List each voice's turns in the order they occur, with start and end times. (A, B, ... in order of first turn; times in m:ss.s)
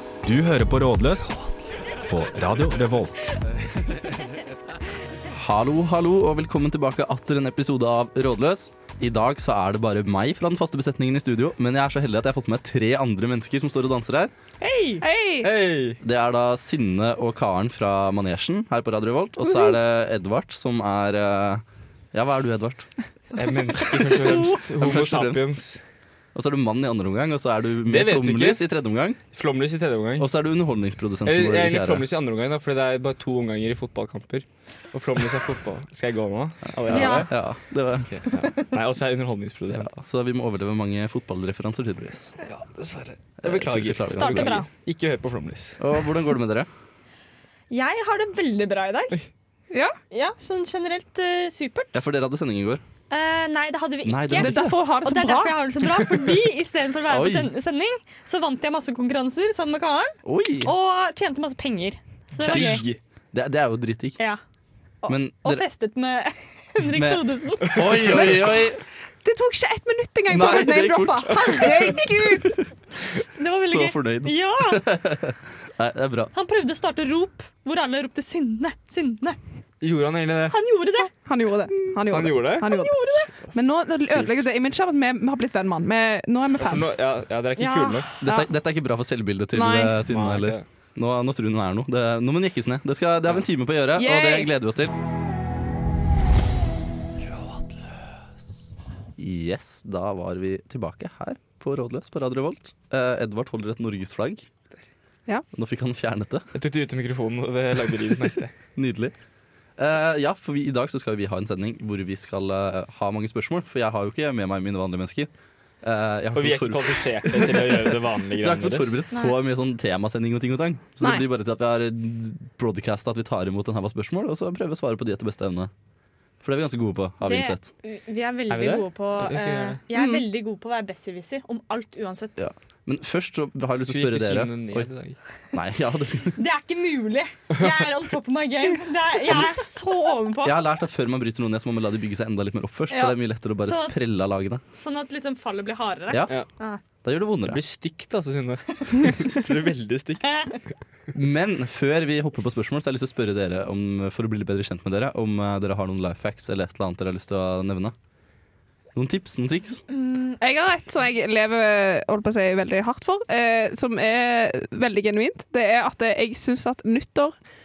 0:00.2-0:01.3 A
0:02.0-0:03.4 A
0:03.6-0:04.5 B
0:05.3-0:14.3 B
0:14.6-0:15.0 C
0:15.0-0:15.5 D
0:15.4-0:16.0 E
0:16.0-0:22.9 B
0:23.3-0:25.8 E
0:24.0-0:25.6 B
0:26.3-0:29.2 B
0:27.9-0:28.7 E
0:29.3-0:30.3 E
0:30.2-0:32.1 B
0:31.2-0:37.4 E
0:36.8-0:38.2 B
0:36.9-0:37.3 C
0:38.0-0:39.9 E
0:39.7-0:42.3 B
0:42.4-0:45.8 E
0:43.4-0:44.6 B
0:44.1-0:44.7 C
0:45.8-0:46.7 B
0:47.7-0:49.2 C
0:49.7-0:50.0 D
0:50.1-0:52.0 C
0:51.9-0:52.8 B
0:53.1-1:02.8 C
0:54.0-0:54.8 B
0:54.4-0:55.6 D
0:57.1-0:57.5 B
1:00.2-1:00.7 B
1:02.4-1:04.2 B
1:02.4-1:03.0 E
1:05.0-1:08.5 C
1:05.1-1:05.6 B
1:06.8-1:08.8 B
1:09.2-1:12.6 D
1:10.3-1:12.7 B
1:13.4-1:14.9 C
1:13.6-1:16.3 B
1:16.3-1:19.4 C
1:19.8-1:20.6 E
1:20.5-1:21.1 C
1:21.2-1:27.0 D
1:22.1-1:22.7 E
1:22.6-1:23.3 C
1:26.6-1:28.2 E
1:27.6-1:28.1 C
1:28.2-1:34.9 B
1:28.2-1:28.5 D
1:29.5-1:30.0 D
1:30.1-1:30.6 E
1:34.0-1:34.5 D
1:39.2-1:44.5 B
1:45.5-1:46.5 B
1:46.5-1:48.5 E
1:48.8-1:49.1 B
1:49.8-1:55.3 B
1:55.8-2:05.7 B
1:56.3-1:59.0 E
1:59.1-1:59.4 C
2:06.4-2:07.7 B
2:07.2-2:12.4 C
2:08.5-2:09.8 E
2:10.0-2:10.2 D
2:12.4-2:14.9 B
2:13.9-2:15.2 E
2:15.5-2:16.4 B
2:16.4-2:20.6 C
2:20.4-2:24.6 B
2:23.6-2:24.0 C
2:24.7-2:26.8 C
2:26.1-2:26.4 B
2:27.0-2:27.6 B
2:27.4-2:30.4 E
2:30.2-2:30.6 C
2:31.1-2:38.0 B
2:39.0-2:39.8 B
2:39.9-2:40.4 C
2:40.4-2:47.3 D